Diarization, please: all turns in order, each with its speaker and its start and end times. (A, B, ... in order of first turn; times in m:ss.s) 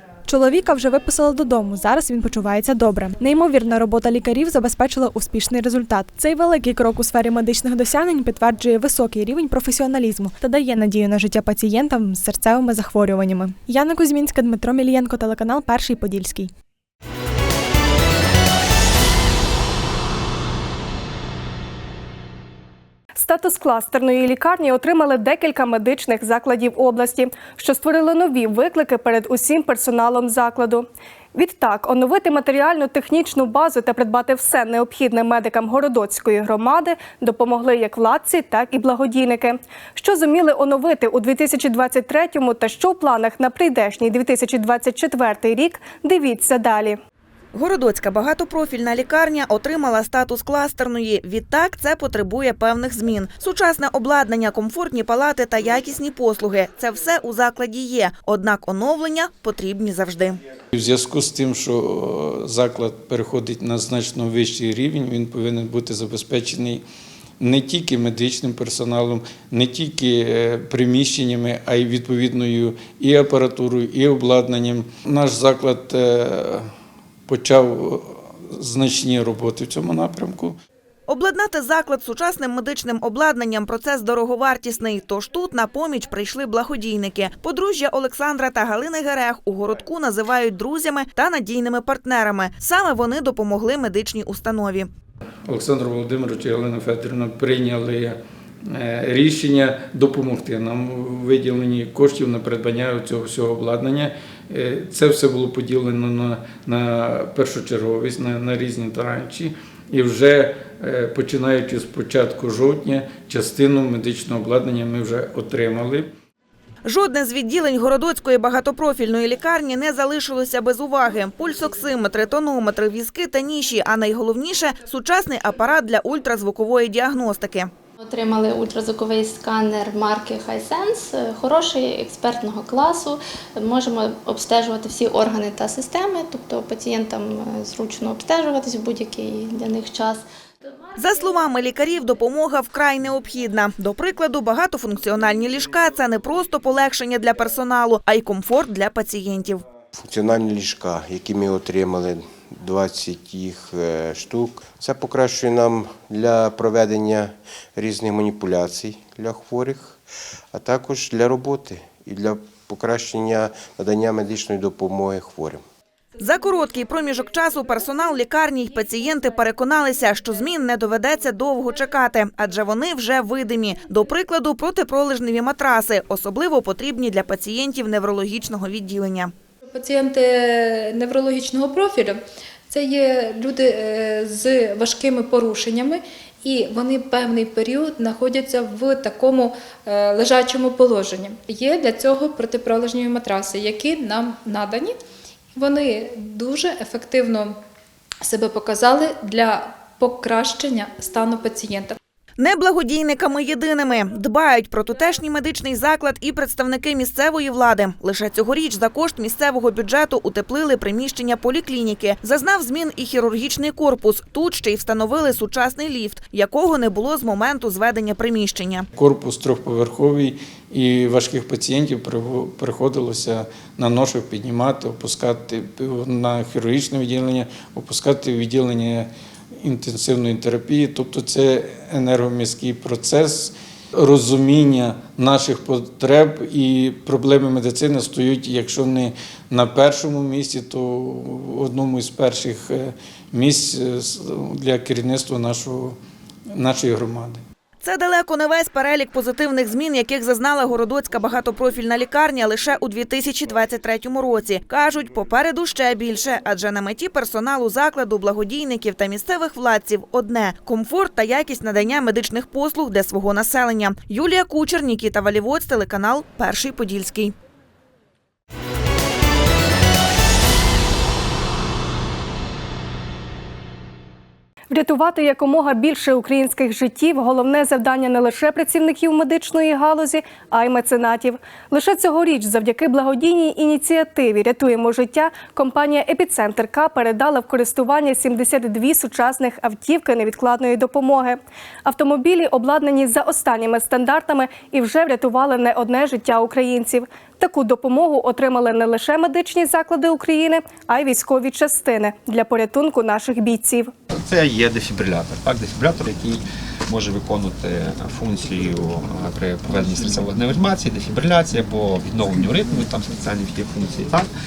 0:00.3-0:16.5 A
0:23.2-0:47.0 B
0:47.5-1:00.4 C
1:00.7-1:06.8 D
1:07.4-1:16.7 D
1:17.3-1:20.6 D
1:21.1-1:34.9 C
1:35.5-1:56.1 D
1:56.9-2:07.7 C
2:08.0-2:20.3 E
2:21.0-2:29.6 C
2:29.9-2:45.6 F
2:46.2-2:59.3 C
2:59.6-3:15.0 G
3:15.5-3:17.6 G
3:18.2-3:22.0 G
3:22.4-3:38.9 C
3:39.0-3:49.1 D
3:49.6-4:06.0 D
4:06.5-4:07.4 D
4:07.8-4:27.3 C
4:34.7-5:03.9 B
5:04.1-5:14.3 H